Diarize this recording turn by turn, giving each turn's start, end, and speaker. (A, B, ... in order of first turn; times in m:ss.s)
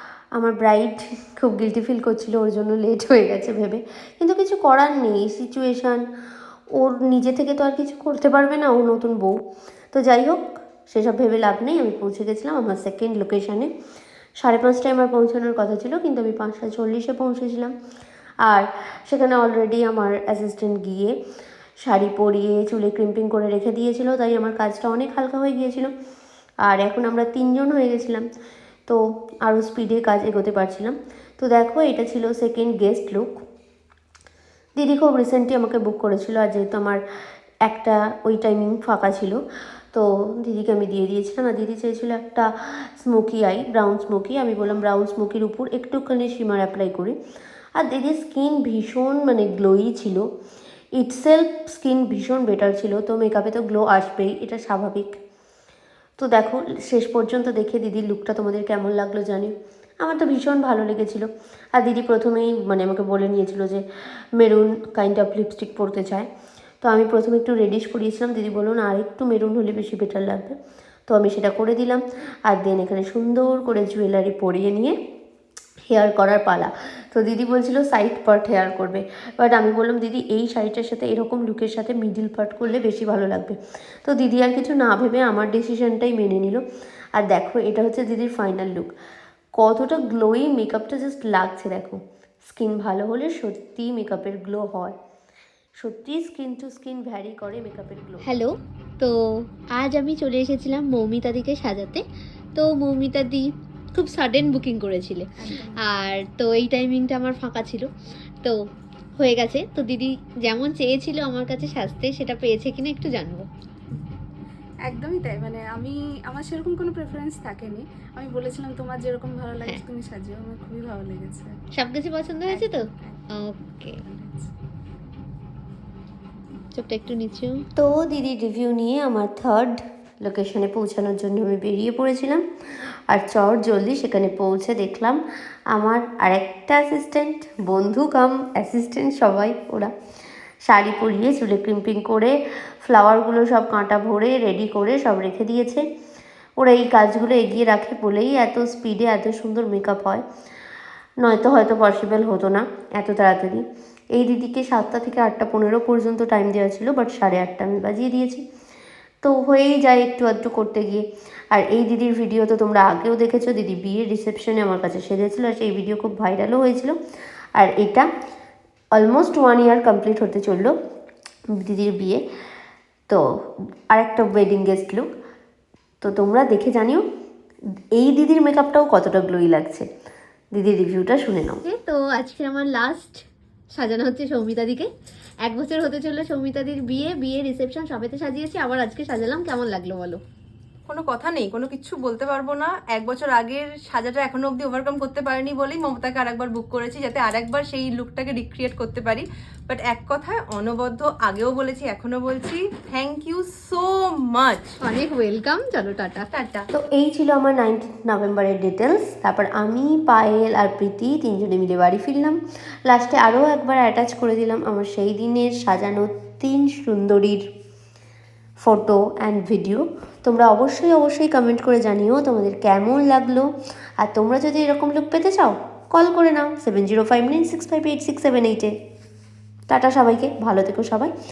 0:00.3-0:06.0 A
0:06.7-0:09.4 A
0:09.9-0:13.7 A
0:14.4-0:17.7 A
0:18.4-0:21.2 A
0:21.8-0:25.9 A
0:26.6-0:28.3 A
0:28.9-0:33.3 A
0:34.8-0:37.0 A
0:37.6-0:39.4 A
0:39.9-0:47.2 A
0:47.8-0:50.2 A
0:51.0-0:55.2 A
0:56.2-1:03.8 A
1:04.4-1:06.3 A
1:06.8-1:10.6 A
1:11.1-1:15.0 A
1:15.8-1:26.6 A
1:27.2-1:28.9 A
1:29.6-1:34.9 A
1:35.8-1:38.3 A
1:38.2-1:42.0 B
1:42.6-1:47.9 B
1:45.4-1:45.8 C
1:49.2-1:53.5 B
1:54.8-2:01.5 C
2:01.7-2:04.0 B
2:02.5-2:03.3 C
2:03.8-2:04.5 C
2:06.7-2:07.6 B
2:07.8-2:12.4 A
2:13.1-2:15.2 A
2:15.7-2:19.9 A
2:20.6-2:25.8 A
2:26.6-2:30.2 A
2:31.2-2:38.4 A
2:39.2-2:47.0 A
2:47.6-2:48.1 A
2:48.9-2:50.7 A
2:51.5-2:52.2 A
2:53.9-2:55.1 A
2:56.0-2:57.0 A
2:57.9-2:59.9 A
3:00.5-3:01.6 A
3:01.6-3:04.9 B
3:05.4-3:10.2 B
3:10.9-3:24.7 D
3:24.8-3:26.3 B
3:26.3-3:26.7 D
3:26.7-3:37.4 A
3:38.6-3:43.5 A
3:44.0-3:48.7 A
3:49.7-3:51.1 A